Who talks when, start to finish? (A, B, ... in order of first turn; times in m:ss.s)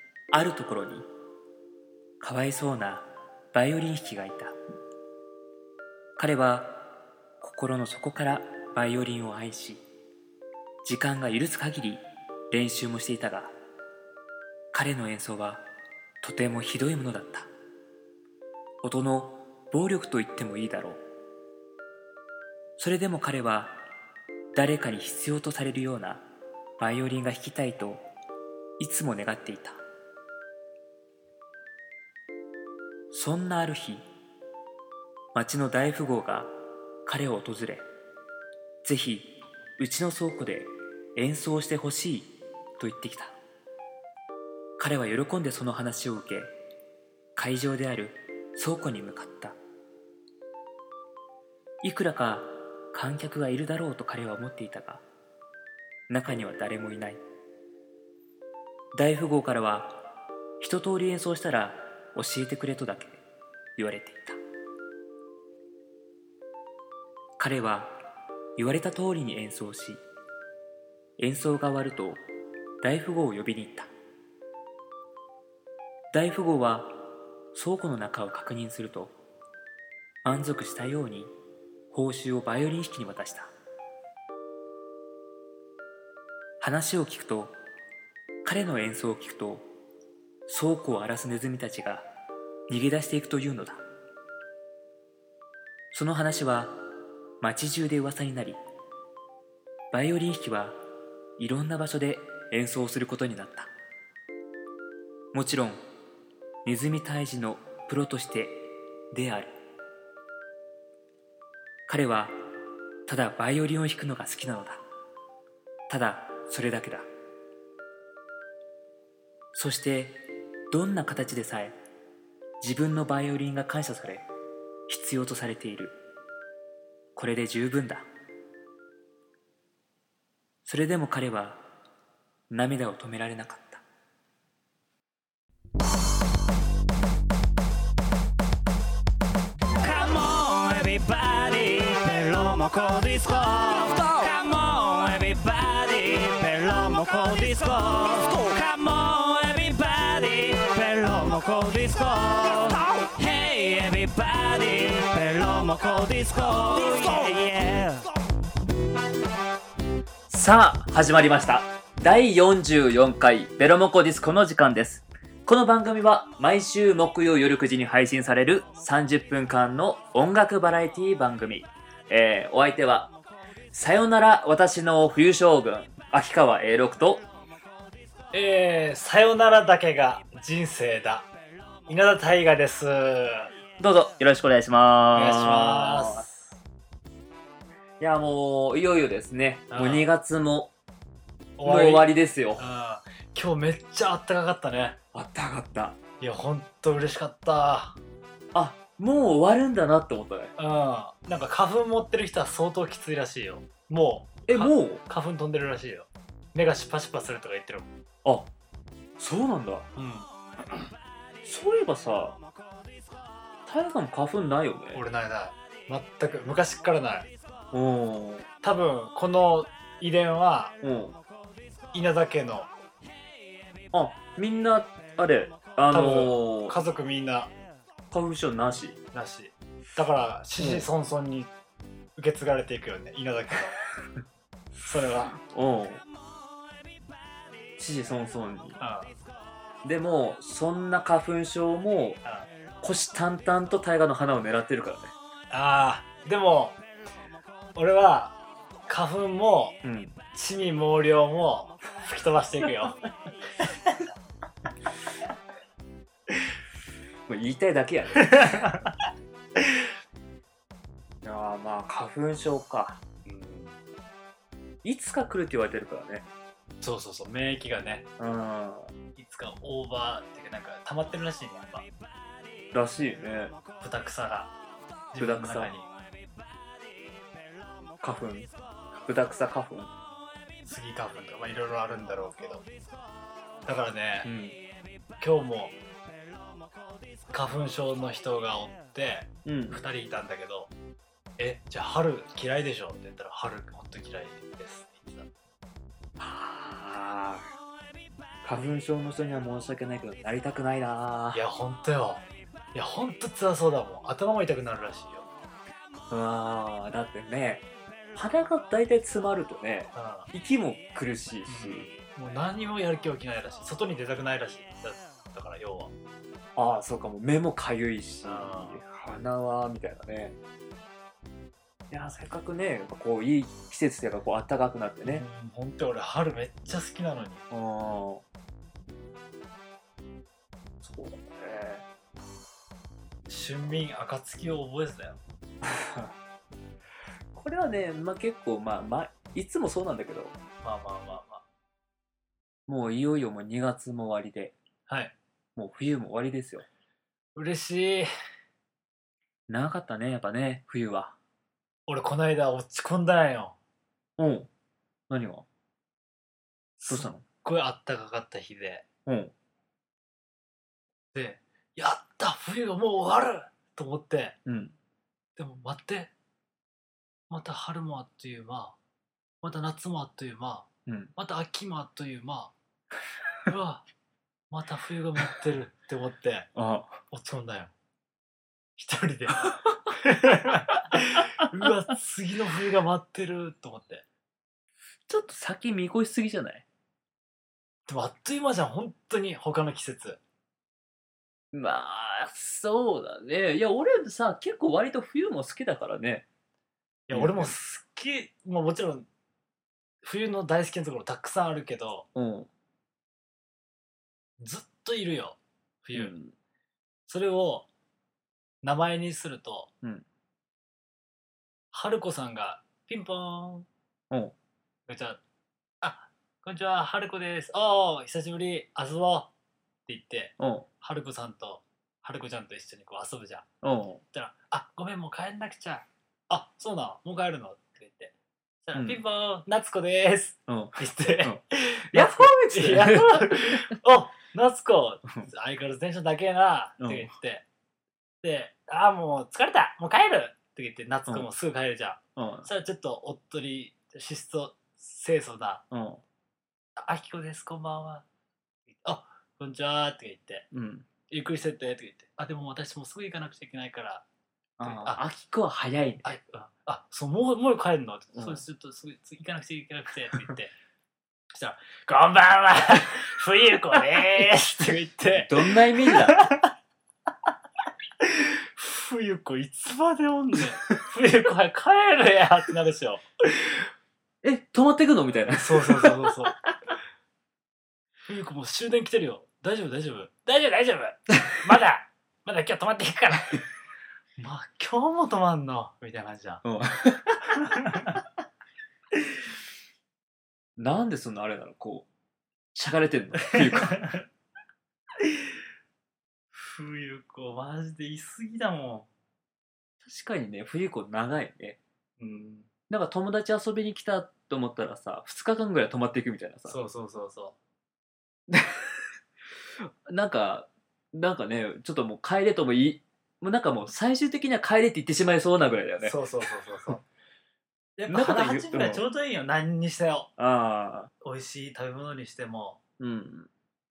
0:00.3-0:01.1 A
0:02.2-0:04.6 A
0:06.2-0:09.8 A
0:10.8-0:13.5 A
0:14.7-0:15.6 A
0:16.2-0:17.5 A
0:18.8-0:21.0 A
0:22.8-0:23.8 A
0:24.5-0:26.2 A
0:26.8-0:28.0 A
0:28.8-0:29.8 A
0:33.1-0:34.0 A
0:35.3-0:37.9 A
0:38.8-0:43.4 A
0:44.8-0:46.6 A
0:47.4-0:49.6 A
0:51.8-0:55.0 A
0:56.1-0:57.2 A
0:58.9-1:00.0 A
1:00.6-1:03.2 A
1:03.8-1:04.4 A
1:07.4-1:08.0 A
1:08.6-1:10.0 A
1:11.2-1:12.2 A
1:12.8-1:13.9 A
1:16.1-1:19.1 A
1:20.2-1:21.3 A
1:21.9-1:23.5 A
1:26.6-1:27.6 A
1:28.4-1:29.7 A
1:30.5-1:32.1 A
1:32.7-1:33.8 A
1:35.9-1:36.8 A
1:37.4-1:38.6 A
1:39.9-1:40.8 A
1:41.4-1:43.7 A
1:45.3-1:45.8 A
1:46.6-1:49.6 A
1:51.9-1:52.5 A
1:53.1-1:54.8 A
1:55.9-1:57.1 A
1:59.5-2:01.8 A
2:02.6-2:04.3 A
2:04.9-2:06.0 A
2:07.2-2:08.0 A
2:10.6-2:11.6 A
2:12.5-2:13.8 A
2:19.8-2:38.0 B
2:40.3-2:53.1 A
2:53.7-2:57.3 A
2:58.3-3:01.3 C
3:01.9-3:03.5 C
3:03.8-3:06.3 A
3:05.1-3:06.5 C
3:08.0-3:10.7 A
3:09.7-3:10.1 C
3:11.6-3:15.0 C
3:11.6-3:12.6 A
3:15.1-3:16.0 A
3:16.2-3:18.0 C
3:18.5-3:20.5 A
3:20.6-3:27.9 C
3:24.5-3:25.0 A
3:28.2-3:28.5 A
3:29.2-3:29.9 A
3:30.0-3:30.3 C
3:31.4-3:32.4 A
3:33.7-3:35.0 A
3:34.9-3:37.3 C
3:37.7-3:38.5 A
3:38.6-3:40.8 C
3:40.8-3:41.2 A
3:41.9-3:42.7 C
3:43.9-3:46.8 A
3:45.9-3:47.5 C
3:48.1-3:49.0 A
3:49.1-3:51.5 C
3:50.6-3:50.9 A
3:52.2-3:53.8 C
3:54.8-3:55.3 C
3:55.4-3:56.0 A
3:57.8-3:58.8 A
3:58.8-3:59.1 C
3:59.8-4:02.2 A
4:02.8-4:05.1 A
4:05.5-4:06.8 C
4:07.8-4:08.4 C
4:08.9-4:09.8 C
4:09.8-4:10.2 A
4:10.3-4:13.0 C
4:17.3-4:18.8 A
4:18.2-4:18.9 C
4:21.2-4:23.0 A
4:23.2-4:23.8 C
4:24.8-4:26.3 A
4:26.8-4:28.1 C
4:28.2-4:28.9 A
4:29.2-4:31.9 C
4:32.7-4:33.6 A
4:33.8-4:34.5 C
4:35.1-4:35.9 C
4:35.2-4:35.7 A
4:38.0-4:39.9 A
4:40.6-4:42.7 C
4:43.6-4:44.3 C
4:44.2-4:44.6 A
4:45.2-4:45.8 C
4:47.3-4:50.7 C
4:49.4-4:49.8 A
4:51.4-4:55.3 C
4:56.2-4:57.5 A
4:58.4-5:01.4 A
5:01.3-5:05.3 C
5:06.1-5:11.9 A
5:09.9-5:10.3 C
5:11.5-5:15.9 C
5:16.6-5:20.4 A
5:18.2-5:18.8 C
5:21.9-5:25.2 A
5:25.0-5:27.4 C
5:27.5-5:28.2 A
5:30.8-5:31.8 A
5:33.3-5:35.2 C
5:35.6-5:36.1 A
5:37.3-5:40.4 A
5:40.6-5:41.4 C
5:42.7-5:44.6 A
5:44.9-5:45.1 C
5:45.6-5:46.7 A
5:47.4-5:48.1 C
5:49.5-5:51.2 A
5:51.9-5:53.6 C
5:54.2-5:54.5 A
5:55.1-5:55.5 A
5:56.8-5:58.9 C
5:56.9-5:57.2 A
5:59.1-5:59.3 A
6:01.1-6:04.4 C
6:04.5-6:04.8 A
6:05.4-6:06.1 C
6:07.3-6:08.8 C
6:09.4-6:12.5 C
6:10.9-6:11.1 A
6:13.5-6:13.8 C
6:14.5-6:16.5 C
6:16.6-6:17.0 A
6:17.1-6:17.7 C
6:18.8-6:24.0 C
6:25.1-6:26.6 A
6:27.9-6:30.2 C
6:31.5-6:36.2 A
6:37.1-6:39.1 C
6:37.1-6:37.6 A
6:40.0-6:42.1 C
6:42.2-6:42.5 A
6:44.4-6:46.1 C
6:45.9-6:46.3 A
6:47.1-6:47.7 C
6:48.6-6:49.7 C
6:51.7-6:53.7 C
6:54.9-6:55.2 C
6:55.8-6:59.3 C
6:59.9-7:03.5 C
7:00.4-7:00.7 A
7:03.6-7:04.0 A
7:04.1-7:17.4 C
7:08.7-7:09.0 A
7:10.5-7:11.4 A
7:11.9-7:13.8 A
7:16.8-7:17.1 A
7:18.2-7:25.6 C
7:22.2-7:22.5 A
7:25.7-7:26.0 A
7:26.8-7:28.1 C
7:28.8-7:30.5 C
7:30.5-7:30.9 A
7:31.1-7:34.0 C
7:34.6-7:36.2 A
7:34.6-7:35.0 C
7:36.0-7:40.5 C
7:38.2-7:38.4 A
7:41.3-7:46.5 C
7:45.1-7:46.3 A
7:48.0-7:53.7 C
7:54.2-7:56.5 A
7:55.3-7:56.4 C
7:58.0-8:03.4 C
8:04.2-8:06.4 C
8:06.4-8:07.4 A
8:07.4-8:08.0 C
8:10.6-8:11.9 A
8:12.5-8:13.9 A
8:13.3-8:14.0 C
8:15.0-8:15.3 C
8:16.3-8:18.9 C
8:19.8-8:21.6 A
8:22.0-8:22.5 C
8:22.7-8:26.6 A
8:26.5-8:27.4 C
8:28.3-8:28.7 A
8:29.6-8:36.0 A
8:35.8-8:36.8 C
8:37.8-8:40.1 C
8:37.9-8:38.8 A
8:40.2-8:40.9 A
8:41.0-8:42.6 C
8:42.8-8:43.3 A